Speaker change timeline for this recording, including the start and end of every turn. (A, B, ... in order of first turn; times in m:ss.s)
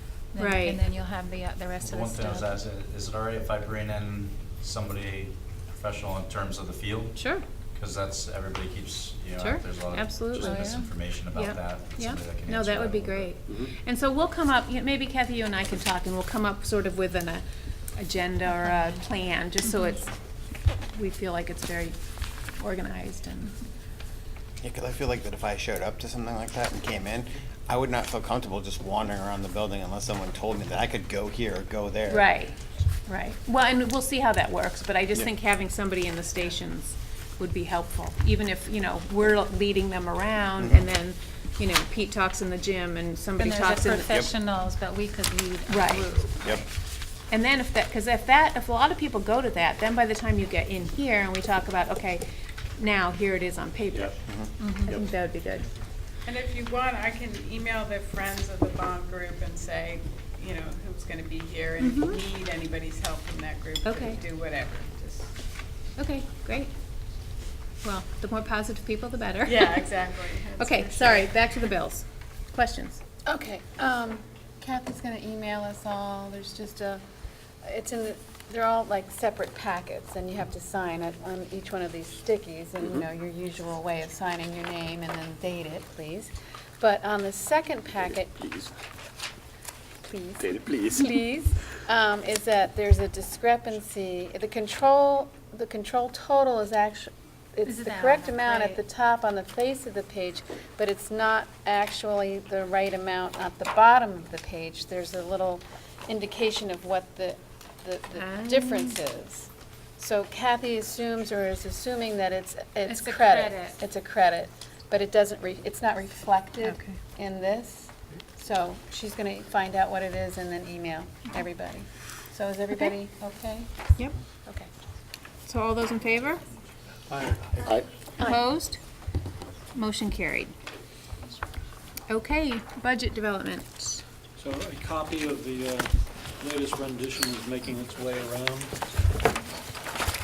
0:00.3-0:02.5 A
0:00.4-0:00.8 B
0:01.8-0:13.3 C
0:07.2-0:07.4 B
0:09.4-0:17.4 B
0:10.4-0:10.9 A
0:13.4-0:13.7 D
0:18.0-0:20.1 B
0:20.9-0:22.0 B
0:22.6-0:23.6 B
0:24.6-0:32.3 E
0:32.1-0:32.6 B
0:33.1-0:44.3 B
0:40.6-0:40.8 E
0:43.4-0:46.7 A
0:45.7-0:46.3 B
0:47.3-0:52.2 B
0:52.8-0:54.2 B
0:53.9-0:55.0 D
0:54.3-0:54.5 E
0:54.6-0:55.0 A
0:54.8-0:55.7 B
0:56.2-1:05.3 F
1:01.8-1:02.2 B
1:03.8-1:04.2 B
1:06.0-1:06.7 B
1:07.8-1:09.9 B
1:09.5-1:11.3 F
1:10.6-1:13.0 B
1:13.3-1:17.0 G
1:17.6-1:28.3 G
1:28.0-1:28.7 D
1:30.0-2:03.7 G
1:30.4-1:31.1 D
1:37.6-1:38.8 A
1:48.2-1:49.0 B
1:52.9-1:53.8 A
2:05.5-2:06.4 B
2:07.6-2:07.9 D
2:08.2-2:08.8 B
2:09.7-2:10.5 B
2:12.1-2:14.0 B
2:14.4-2:19.0 H